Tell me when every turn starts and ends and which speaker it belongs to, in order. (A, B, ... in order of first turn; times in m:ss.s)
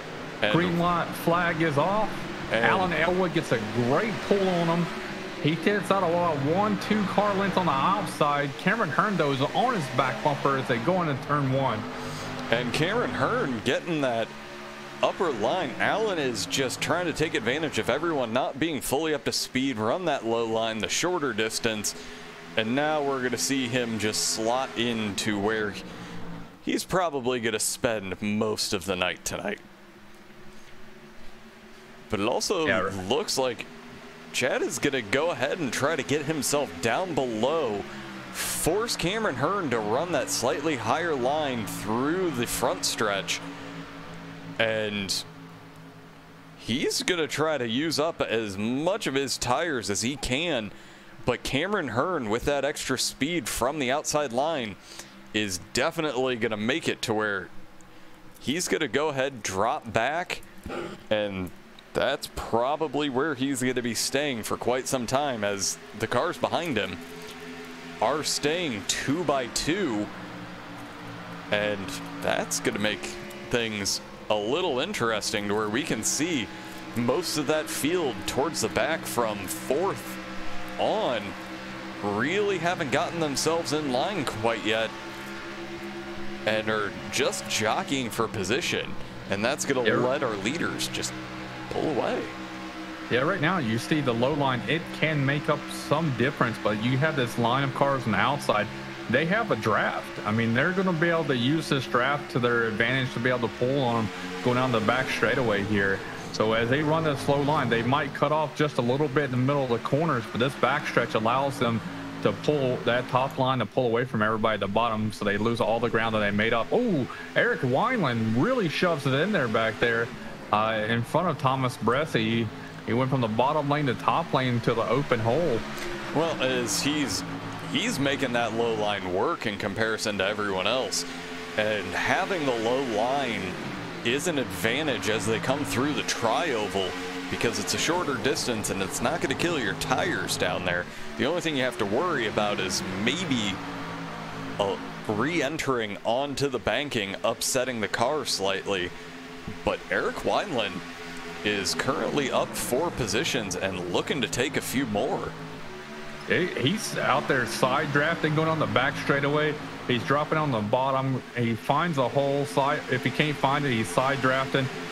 0:00.4-0:00.8 A
0:00.5-0:04.9 B
0:02.5-0:02.9 A
0:05.4-0:11.9 B
0:12.5-0:14.3 A
0:15.0-0:22.0 A
0:22.6-0:25.8 A
0:26.6-0:29.6 A
0:32.1-0:33.7 A
0:32.6-0:33.0 B
0:34.3-0:43.4 A
0:44.6-0:45.2 A
0:46.6-0:50.7 A
0:51.2-0:54.8 A
0:55.3-0:57.5 A
0:58.4-1:00.4 A
1:01.1-1:07.0 A
1:08.0-1:10.1 A
1:11.5-1:20.2 A
1:20.8-1:21.4 A
1:22.0-1:25.0 A
1:26.4-1:31.2 A
1:29.8-1:30.1 B
1:31.7-1:32.4 A
1:33.1-2:05.6 B
2:06.1-2:23.6 A
2:24.6-2:28.9 A
2:29.6-2:30.8 A
2:31.4-2:35.4 A
2:36.3-2:44.7 B